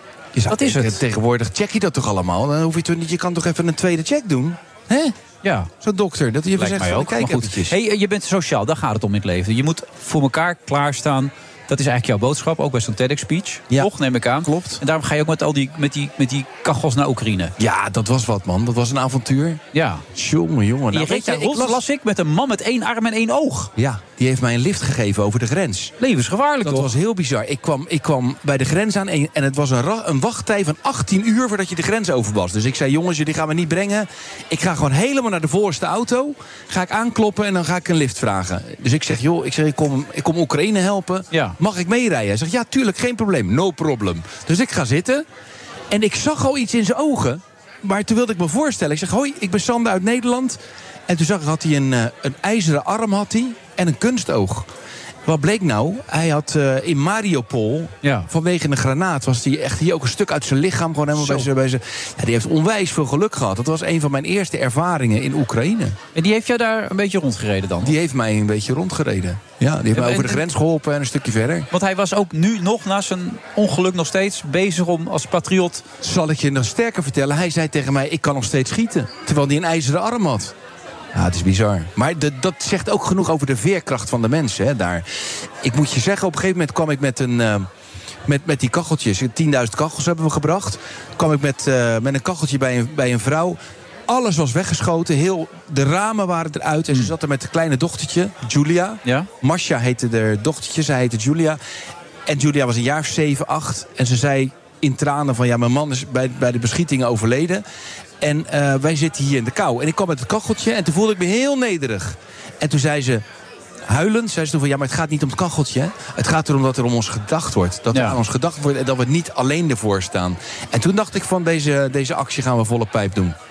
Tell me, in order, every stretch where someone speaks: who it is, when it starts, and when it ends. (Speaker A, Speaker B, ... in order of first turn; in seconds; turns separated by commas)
Speaker A: 0.3-5.1, Speaker B: 0.5-1.0, Speaker B: 5.4-5.7, Speaker A: 5.8-7.7, Speaker B: 6.6-17.5, Speaker A: 14.4-14.8, Speaker A: 17.6-19.6, Speaker B: 19.7-20.1, Speaker A: 20.1-21.8, Speaker B: 20.9-23.7, Speaker A: 23.8-25.9, Speaker B: 26.0-26.9, Speaker A: 26.6-45.2, Speaker B: 41.3-41.6, Speaker A: 45.9-50.6, Speaker A: 51.1-54.7, Speaker A: 55.2-66.0, Speaker B: 58.0-58.3, Speaker B: 61.1-61.5, Speaker B: 66.1-67.9, Speaker A: 67.8-71.7, Speaker B: 69.9-70.4, Speaker B: 71.7-75.8, Speaker A: 76.0-80.5, Speaker A: 81.1-85.0, Speaker A: 85.6-87.7, Speaker A: 88.3-101.6, Speaker B: 99.0-99.3, Speaker A: 102.3-107.6, Speaker A: 108.2-113.2, Speaker A: 113.9-123.3